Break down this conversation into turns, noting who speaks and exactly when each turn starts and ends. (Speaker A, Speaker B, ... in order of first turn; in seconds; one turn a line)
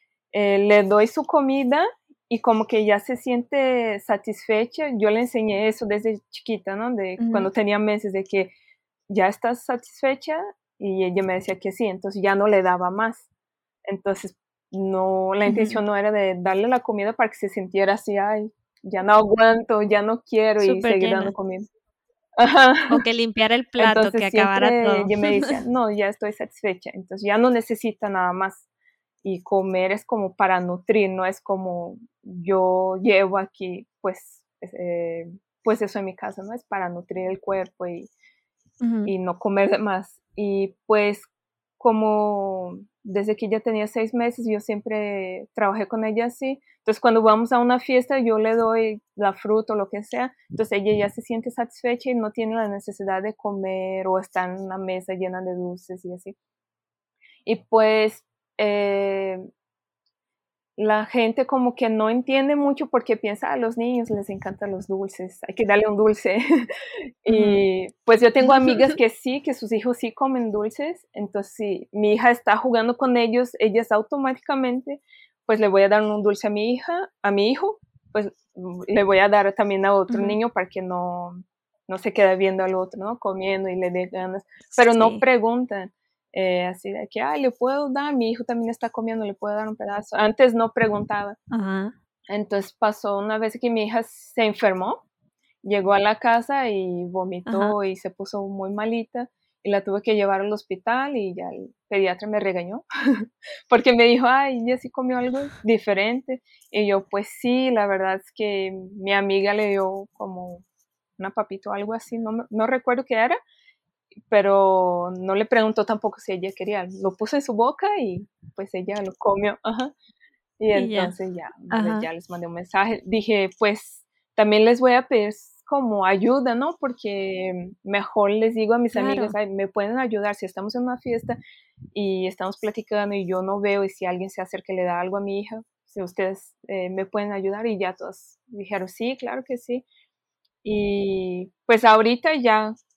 Speaker A: 0.3-8.5
Speaker B: 7.2-7.5
Speaker A: 9.1-13.2
Speaker A: 13.8-21.7
Speaker B: 15.4-15.8
Speaker B: 20.6-21.3
Speaker A: 22.4-23.0
Speaker B: 22.9-25.6
Speaker A: 23.8-28.6
Speaker A: 29.2-38.1
Speaker B: 38.8-39.1
Speaker A: 39.0-41.3
Speaker A: 41.8-56.3
Speaker A: 57.4-59.5
Speaker A: 60.8-66.4
Speaker A: 67.2-91.4
Speaker B: 67.3-67.6
Speaker B: 68.4-68.9
Speaker B: 80.1-80.4
Speaker B: 84.7-85.2
Speaker B: 91.5-91.9
Speaker A: 92.3-95.0
Speaker A: 95.6-110.6
Speaker B: 97.5-97.8
Speaker A: 111.2-113.4
Speaker A: 114.3-119.9
Speaker A: 120.6-131.4
Speaker B: 120.7-121.1
Speaker B: 121.7-122.1
Speaker B: 128.9-129.3
Speaker A: 131.9-139.8
Speaker A: 140.6-142.7